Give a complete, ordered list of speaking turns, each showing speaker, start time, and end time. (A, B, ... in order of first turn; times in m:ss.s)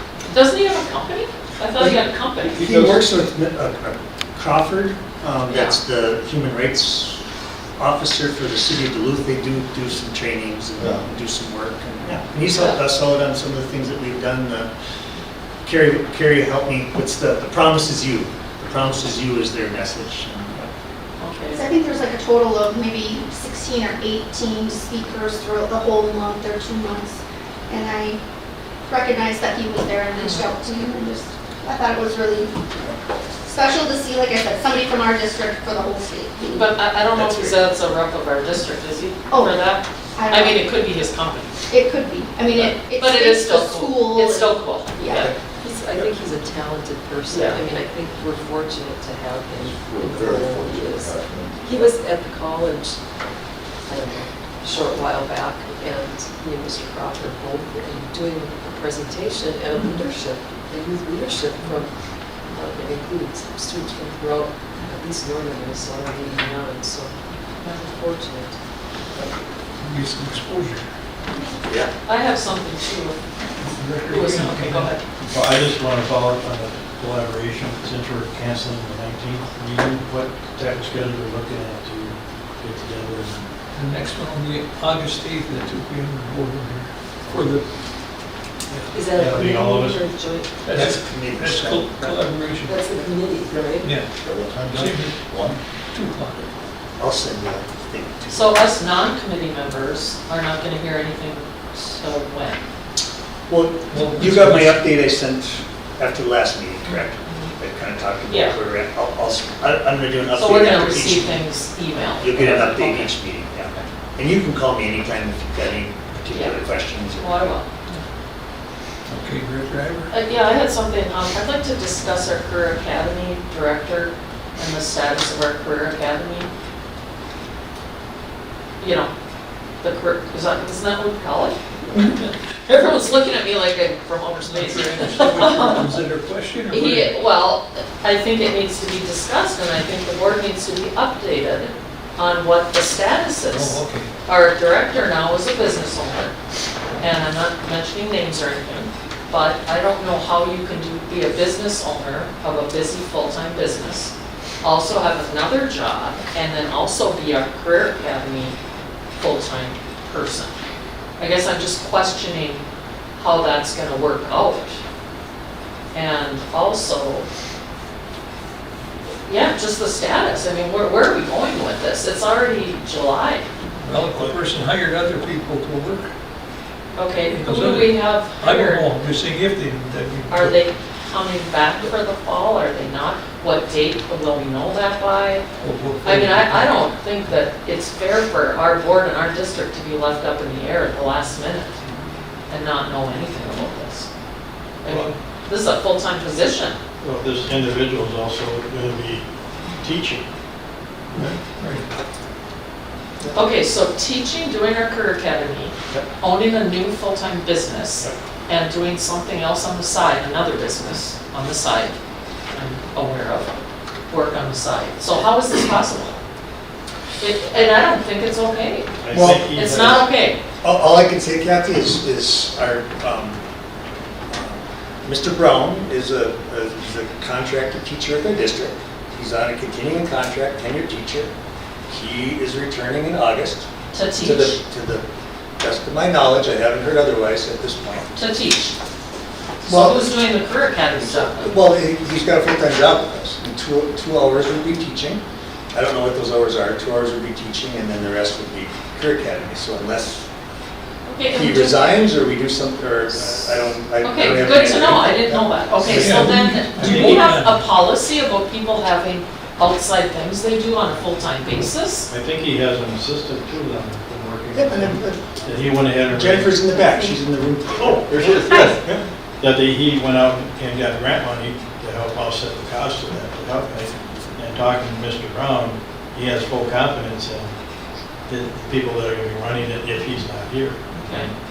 0:00.3-0:02.9 A
0:01.8-0:07.2 B
0:05.5-0:05.8 A
0:07.8-0:14.7 B
0:10.8-0:11.1 C
0:12.5-0:12.8 A
0:15.6-0:20.7 B
0:21.2-0:21.6 A
0:22.1-0:27.1 D
0:27.7-0:28.2 D
0:28.9-0:29.9 D
0:30.1-0:30.5 A
0:31.6-0:32.5 D
0:33.8-0:36.1 D
0:36.5-0:41.6 A
0:37.1-0:37.6 B
0:41.8-0:42.3 D
0:42.5-0:45.3 A
0:45.1-0:45.4 B
0:45.4-0:53.0 E
0:47.3-0:47.6 A
0:49.6-0:52.0 C
0:53.9-1:01.9 E
1:02.5-1:08.6 E
1:09.8-1:10.8 F
1:11.7-1:13.2 A
1:13.6-1:14.9 F
1:14.1-1:15.0 A
1:15.2-1:23.5 G
1:23.7-1:27.7 F
1:28.9-1:30.7 E
1:29.1-1:30.0 G
1:30.6-1:32.9 F
1:30.7-1:32.2 B
1:32.6-1:34.0 E
1:33.8-1:34.1 F
1:34.2-1:35.6 C
1:34.6-1:36.5 F
1:37.0-1:38.5 B
1:38.3-1:42.6 A
1:43.5-1:51.4 B
1:43.9-1:44.8 F
1:46.9-1:47.5 A
1:48.3-1:48.6 A
1:50.3-1:53.1 A
1:52.2-1:57.6 B
1:56.3-1:58.0 A
1:59.1-2:00.1 F
2:00.1-2:06.5 A
2:08.8-2:09.1 A
2:09.8-2:15.8 A
2:14.5-2:17.2 F
2:16.7-2:26.3 A
2:23.5-2:24.1 F
2:27.0-2:38.6 A
2:39.2-2:40.5 A
2:41.2-2:42.6 A
2:43.2-2:44.8 A
2:45.9-2:47.3 A
2:49.3-2:53.5 A
2:53.8-2:56.1 F
2:54.1-2:54.4 G
2:57.0-2:58.8 A
2:57.3-3:00.6 F
3:00.3-3:05.4 A
3:05.6-3:06.7 F
3:06.0-3:11.8 A
3:12.5-3:14.1 A
3:14.8-3:16.8 A
3:14.9-3:15.1 F
3:17.0-3:20.2 G
3:21.6-3:21.8 F
3:23.3-3:32.0 A
3:32.5-3:33.6 A
3:34.1-3:36.2 A
3:37.2-3:40.4 A
3:39.0-3:40.1 G
3:39.1-3:39.5 B
3:40.6-3:43.4 B
3:44.3-3:51.3 B
3:51.9-3:55.0 B
3:53.9-3:54.6 A
3:55.6-3:58.2 B
3:58.2-3:58.8 A
3:59.6-4:01.5 A
3:59.6-4:00.3 B
4:00.9-4:05.2 B
4:05.7-4:10.3 B
4:11.1-4:12.1 A
4:11.3-4:16.1 B
4:14.0-4:22.1 A
4:15.8-4:17.6 F
4:15.9-4:17.4 G
4:22.1-4:26.6 G
4:24.5-4:25.4 B
4:26.1-4:29.0 B
4:26.7-4:27.2 A
4:28.1-4:37.5 G
4:38.3-4:41.3 G
4:41.0-4:41.3 A